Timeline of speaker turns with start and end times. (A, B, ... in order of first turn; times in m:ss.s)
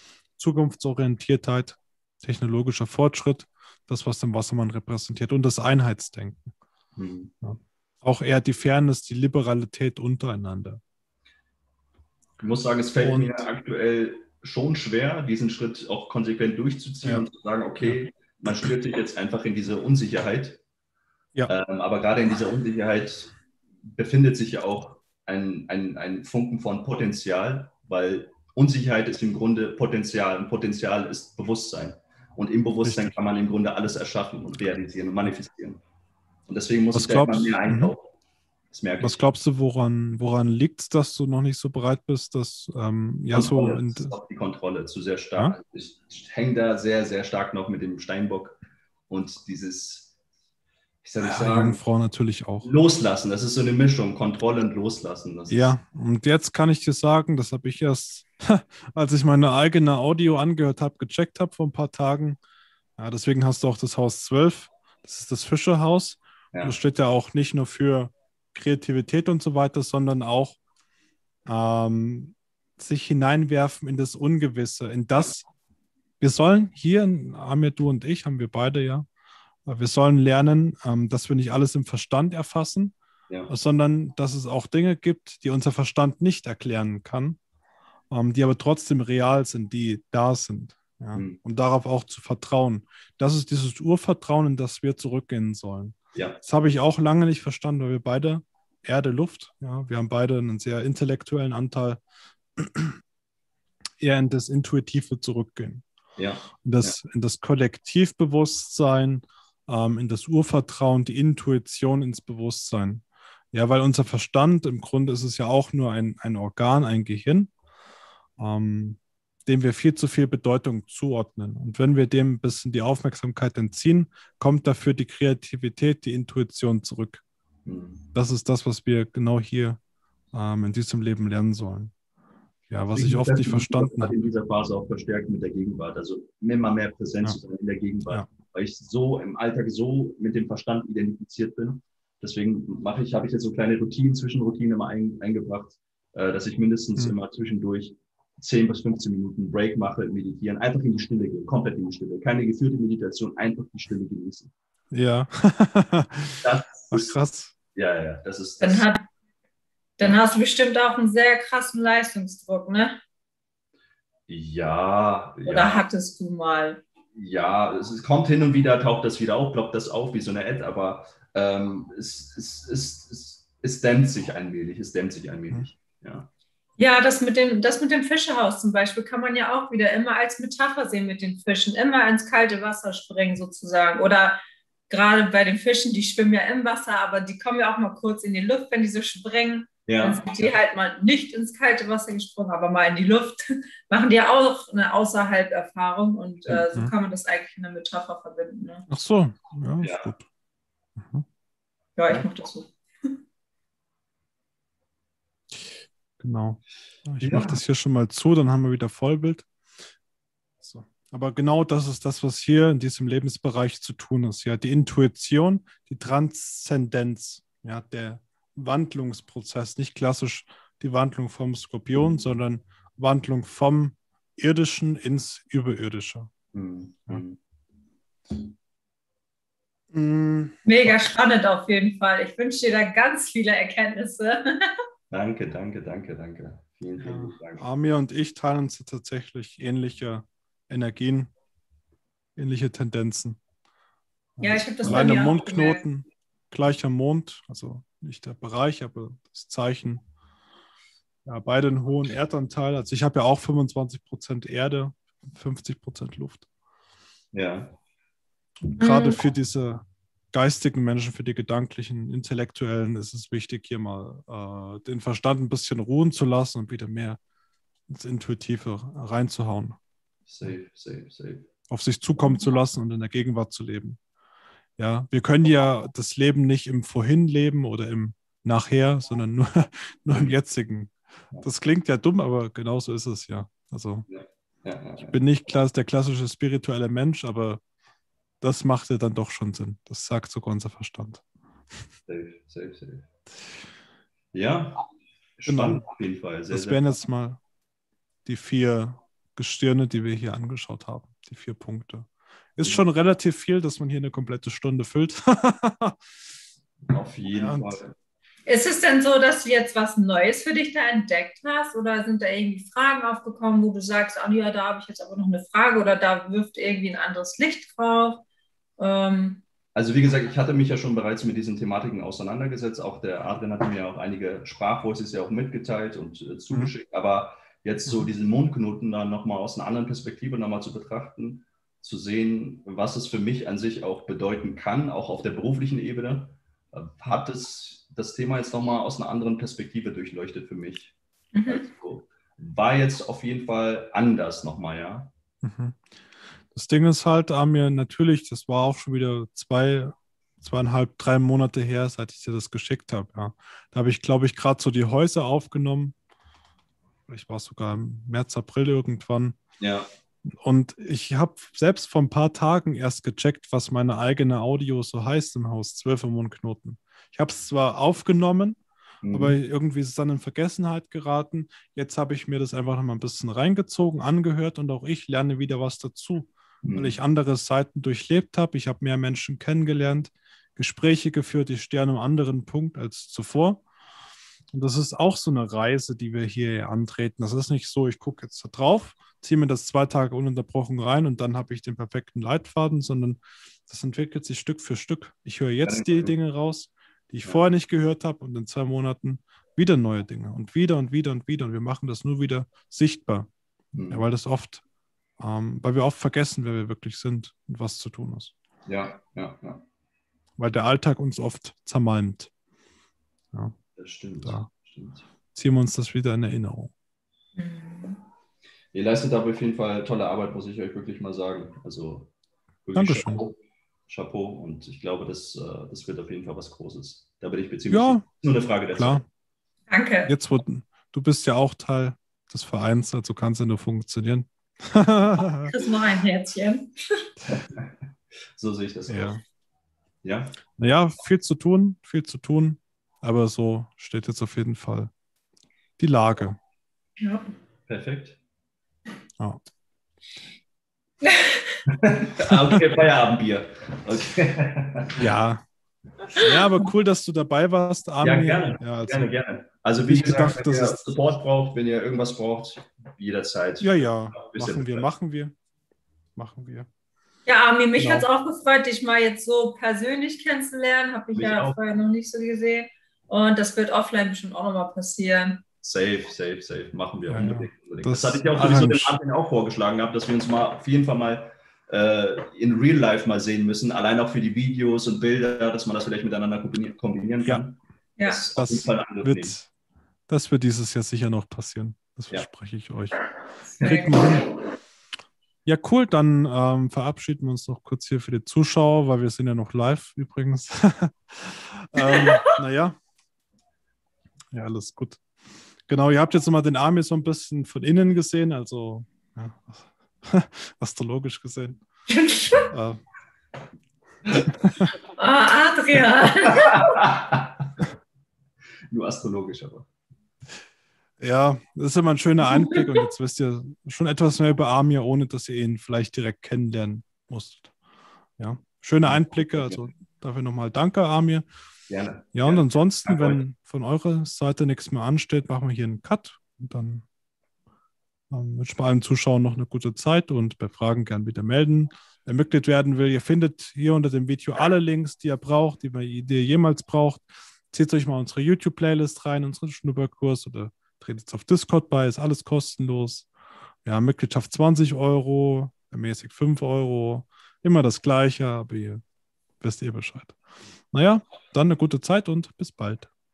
0:00.4-0:06.5 A
0:07.0-0:07.3 B
0:07.4-0:10.8 A
0:12.4-0:20.6 B
0:13.0-0:13.5 A
0:21.5-0:35.8 B
0:32.8-0:33.1 A
0:36.5-0:38.1 B
0:36.9-0:37.9 A
0:38.7-0:39.2 B
0:39.0-0:44.1 A
0:43.3-0:48.6 B
0:49.1-0:50.1 B
0:51.0-0:51.8 B
0:51.2-0:52.7 A
0:52.6-0:55.7 B
0:55.5-1:02.4 A
1:03.0-1:10.6 A
1:11.5-1:15.5 A
1:16.2-1:19.1 A
1:19.7-1:23.0 A
1:23.5-1:27.4 A
1:28.1-1:42.0 A
1:42.6-1:43.0 A
1:44.0-1:45.8 A
1:46.2-1:47.0 B
1:46.6-1:57.5 A
1:58.4-2:07.2 A
2:07.6-2:08.1 B
2:08.1-2:09.8 A
2:10.3-2:11.9 A
2:12.7-2:14.1 A
2:12.9-2:34.5 B
2:34.9-2:37.5 A
2:36.4-2:37.2 B
2:37.7-2:38.9 B
2:38.6-2:39.0 C
2:40.0-2:43.0 C
2:44.3-2:45.8 B
2:45.5-2:46.8 C
2:47.2-2:56.3 B
2:56.8-3:18.9 C
3:09.9-3:10.2 B
3:16.5-3:16.9 A
3:18.9-3:20.3 A
3:19.8-3:20.1 B
3:21.0-3:21.2 A
3:22.0-3:23.2 C
3:26.2-3:29.5 A
3:27.2-3:27.6 B
3:30.6-3:46.3 A
3:46.5-3:47.4 B
3:49.9-3:51.0 A
3:50.6-3:54.8 C
3:55.1-3:57.6 B
3:57.0-4:01.3 A
4:02.4-4:03.4 A
4:04.4-4:10.0 A
4:04.4-4:05.8 C
4:04.9-4:05.1 B
4:11.3-4:16.5 A
4:17.3-4:17.8 B
4:18.8-4:27.2 A
4:18.8-4:19.2 C
4:27.9-4:29.8 A
4:30.3-4:31.5 B
4:31.7-4:34.0 A
4:34.8-4:44.1 A
4:44.1-4:45.2 B
4:45.0-4:47.6 A
4:48.4-4:51.2 A
4:52.1-4:53.1 B
4:54.3-4:54.8 B
4:55.4-4:56.8 B
4:55.5-4:55.8 A
4:56.5-4:57.4 A
4:58.2-5:06.0 A
5:06.9-5:07.9 B
5:07.4-5:07.8 A
5:08.4-5:18.2 C
5:18.8-5:19.4 C
5:19.8-5:40.9 B
5:41.3-5:41.7 C
5:41.5-5:45.1 B
5:45.4-5:45.8 A
5:46.5-5:56.0 A
5:57.1-5:59.4 A
5:59.6-5:59.9 B
6:00.3-6:08.6 A
6:09.0-6:09.4 B
6:09.1-6:23.6 A
6:16.6-6:17.0 B
6:24.5-6:43.3 A
6:35.6-6:36.2 B
6:43.7-6:44.0 B
6:43.9-6:44.6 A
6:45.2-6:48.3 A
6:48.7-6:49.6 B
6:50.4-6:52.3 A
6:53.8-6:55.0 B
6:54.2-6:54.5 A
6:55.3-6:56.7 A
6:57.4-6:58.0 C
6:58.7-7:02.1 B
7:02.6-7:03.4 B
7:02.8-7:03.2 A
7:03.9-7:09.0 B
7:07.7-7:08.1 A
7:08.7-7:09.0 A
7:09.7-7:10.1 C
7:10.1-7:15.5 A
7:15.5-7:17.0 C
7:17.3-7:17.7 B
7:18.4-7:19.2 B
7:18.9-7:19.2 A
7:20.0-7:20.3 B
7:20.6-7:24.9 A
7:25.8-7:26.4 A
7:27.0-7:27.3 C
7:27.7-7:28.2 B
7:31.0-7:31.6 C
7:31.7-7:35.0 B
7:32.3-7:32.6 A
7:35.0-7:35.4 A
7:36.1-7:39.1 A
7:38.0-7:44.9 B
7:39.9-7:40.8 A
7:43.6-7:45.4 A
7:46.2-7:46.7 A
7:47.3-7:55.4 C
7:47.8-7:48.0 A
7:51.2-7:51.6 B
7:55.6-8:09.4 B
7:57.1-7:59.0 A
8:08.0-8:08.2 C
8:08.4-8:09.5 A
8:10.1-8:13.0 A
8:13.6-8:14.3 A
8:13.6-8:14.1 C
8:15.4-8:22.8 A
8:21.8-8:22.2 C
8:24.3-8:25.0 A
8:25.7-8:31.6 A
8:31.9-8:32.5 C
8:32.5-8:32.8 A
8:34.4-8:34.7 A
8:35.0-8:36.6 C
8:36.2-8:37.7 B
8:38.7-8:39.7 B
8:41.0-8:47.5 A
8:48.2-8:51.2 A
8:48.8-8:49.6 B
8:51.7-8:53.2 B
8:52.1-8:56.8 A
8:58.1-9:13.1 A
9:13.6-9:18.8 A
9:19.4-9:20.2 A
9:20.7-9:22.9 A